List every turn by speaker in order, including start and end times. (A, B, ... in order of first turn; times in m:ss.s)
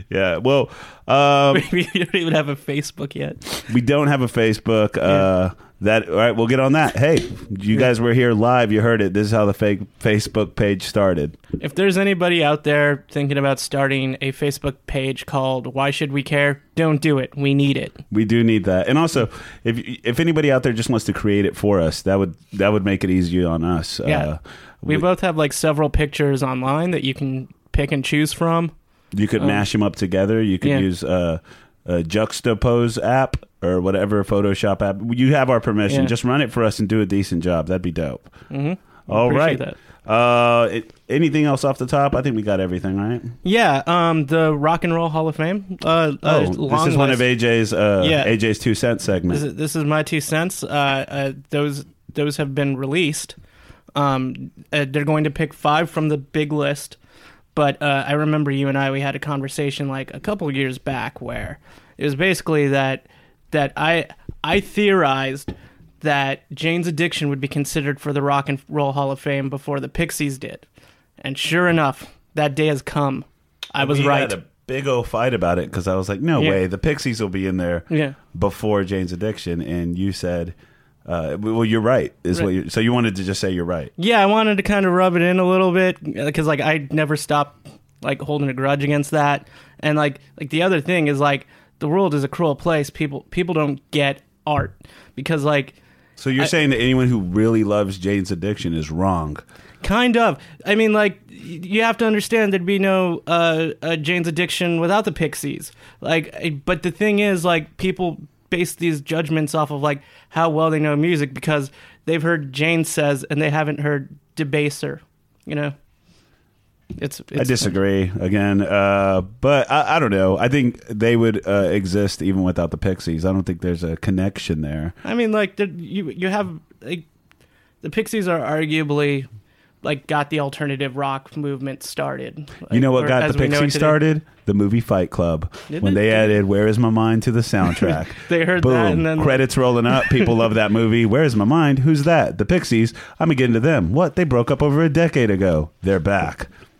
0:00.1-0:01.6 A
0:01.5-0:03.6 B
0:03.7-0:11.4 A
0:11.6-0:18.0 B
0:18.1-0:25.0 A
0:24.8-0:28.7 B
0:29.1-0:38.3 A
0:29.4-0:29.6 B
0:35.9-0:36.1 B
0:38.5-0:39.8 B
0:39.1-0:43.3 A
0:43.4-0:47.3 B
0:46.2-0:49.4 A
0:48.0-0:48.3 B
0:49.3-0:53.3 B
0:53.9-0:57.0 B
0:57.5-1:10.6 B
1:11.2-1:14.4 B
1:13.8-1:20.5 A
1:16.4-1:16.6 B
1:17.9-1:18.2 B
1:21.0-1:23.9 A
1:24.0-1:35.7 B
1:36.2-1:39.4 A
1:39.8-1:55.7 B
1:57.0-1:57.7 B
1:57.3-2:05.0 A
2:05.0-2:07.0 B
2:07.8-2:09.3 B
2:09.8-2:14.0 B
2:12.7-2:26.5 A
2:15.7-2:16.4 B
2:18.2-2:19.5 B
2:20.0-2:20.3 B